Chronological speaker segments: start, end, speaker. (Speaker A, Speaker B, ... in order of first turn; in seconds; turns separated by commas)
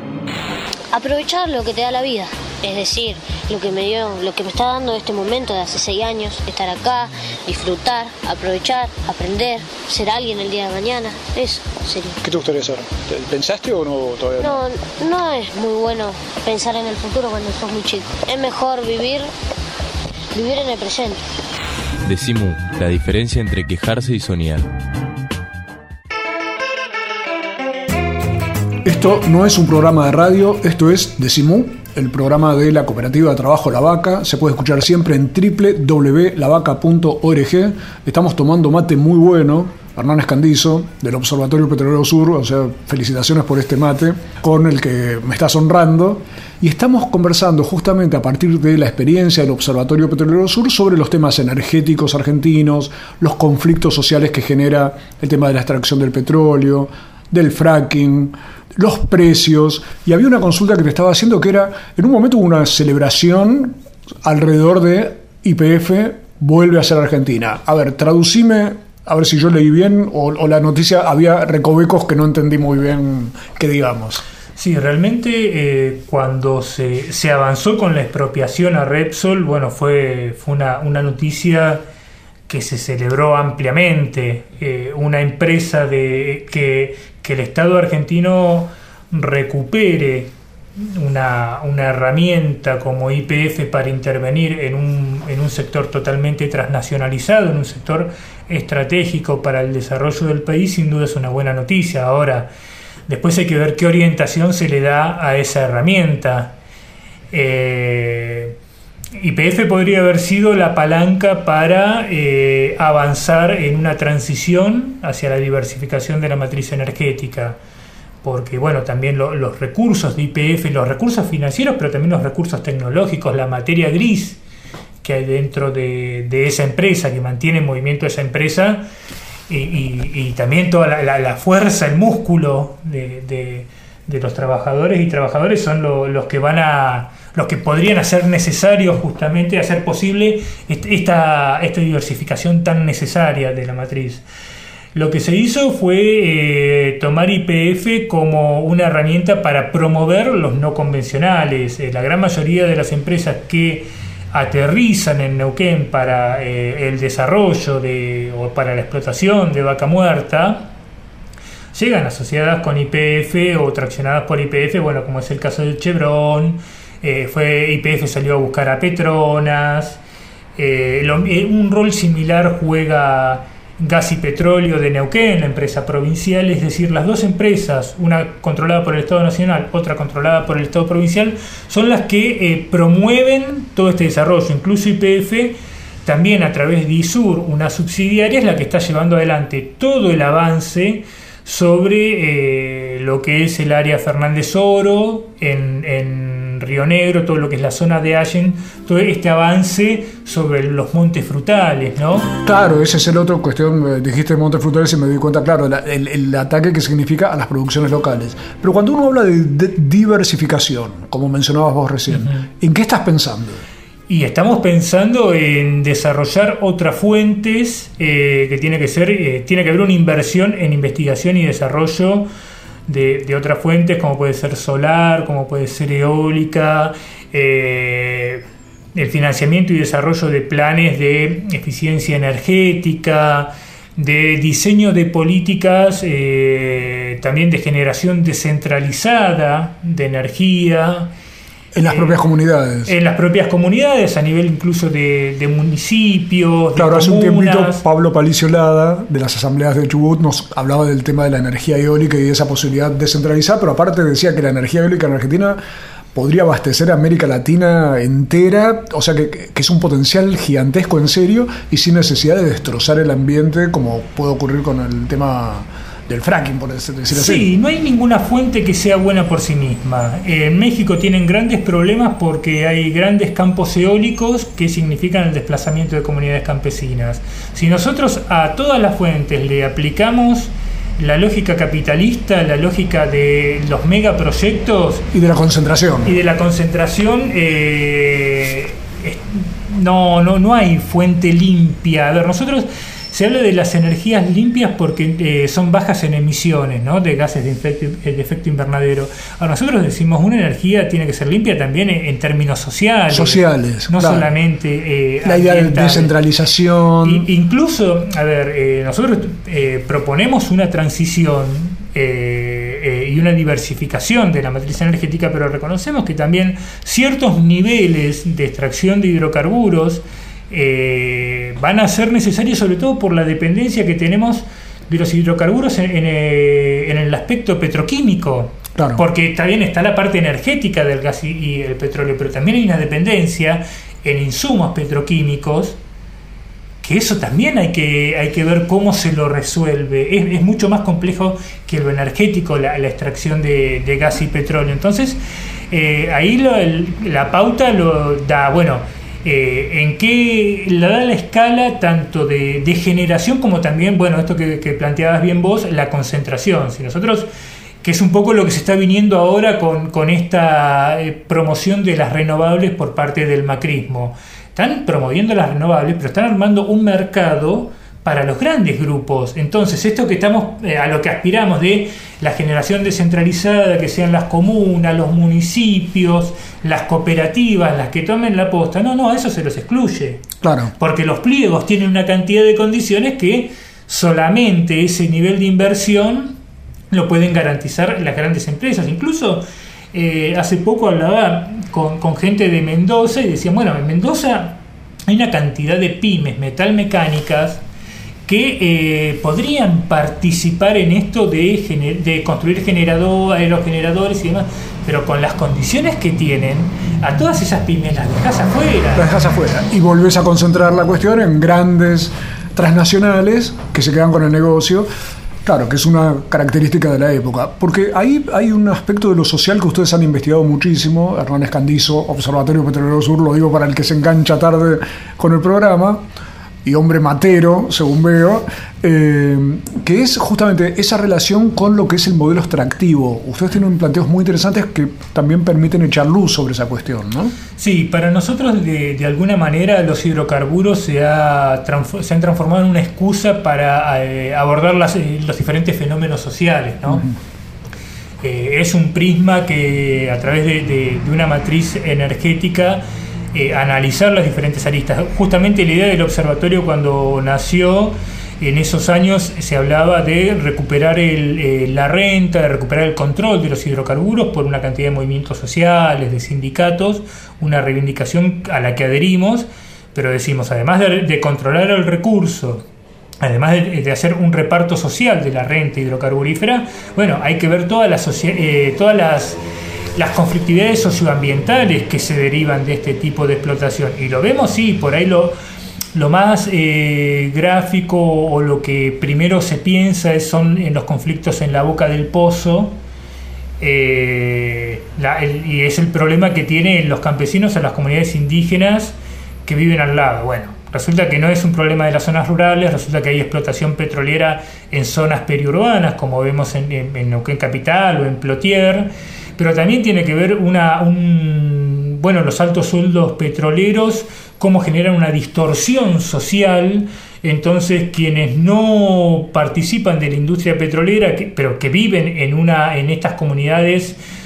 Speaker A: 0.9-12.2, Speaker B: 12.3-14.2, Speaker A: 14.4-19.3, Speaker A: 20.3-21.2, Speaker C: 22.0-24.6, Speaker D: 28.8-74.2, Speaker E: 74.5-81.8, Speaker E: 82.5-102.5, Speaker E: 103.1-106.5, Speaker E: 107.3-108.5, Speaker E: 109.2-117.6, Speaker E: 118.2-124.4, Speaker E: 125.0-128.8, Speaker E: 129.5-144.2, Speaker E: 144.9-160.7, Speaker E: 161.7-170.0, Speaker E: 170.6-202.3, Speaker D: 202.4-213.6, Speaker E: 212.1-212.4, Speaker E: 214.1-222.3, Speaker E: 222.9-228.4, Speaker E: 228.9-241.1, Speaker D: 241.7-242.9, Speaker E: 241.8-242.2, Speaker E: 242.8-247.8, Speaker D: 246.8-255.6, Speaker D: 256.1-267.4, Speaker E: 267.1-285.1, Speaker D: 285.1-286.1, Speaker E: 286.0-306.1, Speaker D: 303.1-304.3, Speaker D: 305.2-307.3, Speaker E: 307.0-335.8, Speaker D: 328.8-329.0, Speaker E: 336.8-357.3, Speaker E: 357.8-380.2, Speaker D: 380.4-380.7, Speaker E: 380.8-386.4, Speaker E: 386.9-397.6, Speaker E: 398.3-409.1, Speaker D: 408.9-414.9, Speaker D: 415.4-426.0, Speaker D: 426.6-437.4, Speaker E: 437.6-447.0, Speaker D: 446.9-447.1, Speaker E: 448.2-472.6, Speaker E: 473.2-479.4, Speaker E: 479.9-485.4, Speaker E: 485.9-492.8, Speaker E: 493.6-524.0